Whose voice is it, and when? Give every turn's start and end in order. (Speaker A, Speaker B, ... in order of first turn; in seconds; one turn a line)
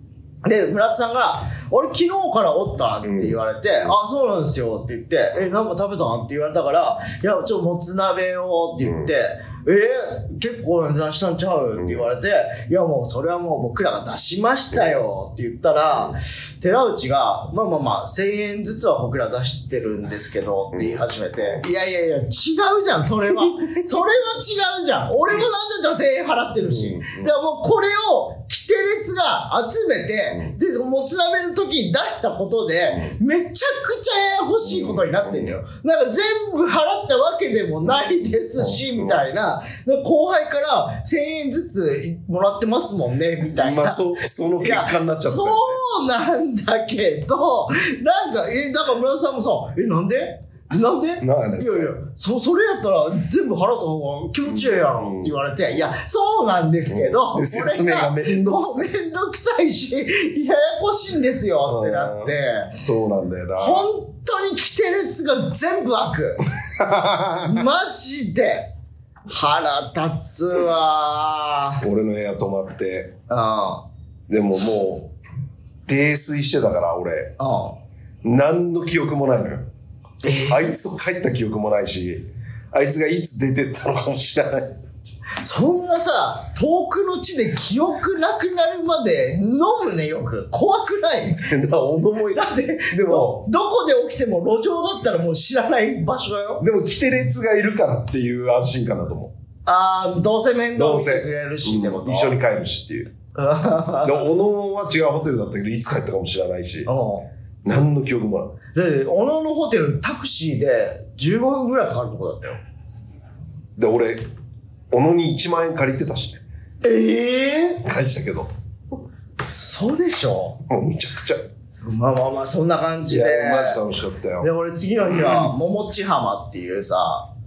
Speaker A: 0.4-44.1
Speaker B: 3.0-3.4
Speaker B: 20.7-21.6
Speaker B: 23.4-23.8
Speaker B: 26.7-27.3
Speaker B: 34.6-35.5
Speaker B: 38.6-39.2
Speaker B: 43.6-45.8
Speaker A: 44.6-62.8
Speaker B: 51.2-51.9
Speaker B: 54.5-55.3
Speaker B: 56.9-58.9
Speaker B: 61.7-63.9
Speaker A: 63.6-66.5
Speaker B: 66.8-67.6
Speaker A: 67.4-68.7
Speaker A: 69.3-71.8
Speaker B: 71.8-73.1
Speaker A: 73.3-73.8
Speaker B: 74.3-75.1
Speaker B: 75.9-77.3
Speaker A: 77.4-77.8
Speaker B: 78.2-79.7
Speaker A: 80.2-80.7
Speaker B: 80.5-84.8
Speaker A: 85.4-91.5
Speaker B: 91.3-93.4
Speaker A: 92.3-96.6
Speaker B: 96.6-99.3
Speaker A: 99.7-102.3
Speaker B: 100.8-103.1
Speaker A: 103.3-104.3
Speaker B: 104.0-106.9
Speaker A: 106.8-107.3
Speaker B: 107.6-108.5
Speaker A: 108.7-112.6
Speaker B: 113.8-114.2
Speaker B: 114.9-116.4
Speaker A: 116.8-117.8
Speaker B: 117.8-118.5
Speaker A: 119.4-120.6
Speaker B: 120.7-121.4
Speaker A: 121.8-123.8
Speaker B: 123.1-124.5
Speaker A: 124.4-127.3
Speaker B: 125.1-125.5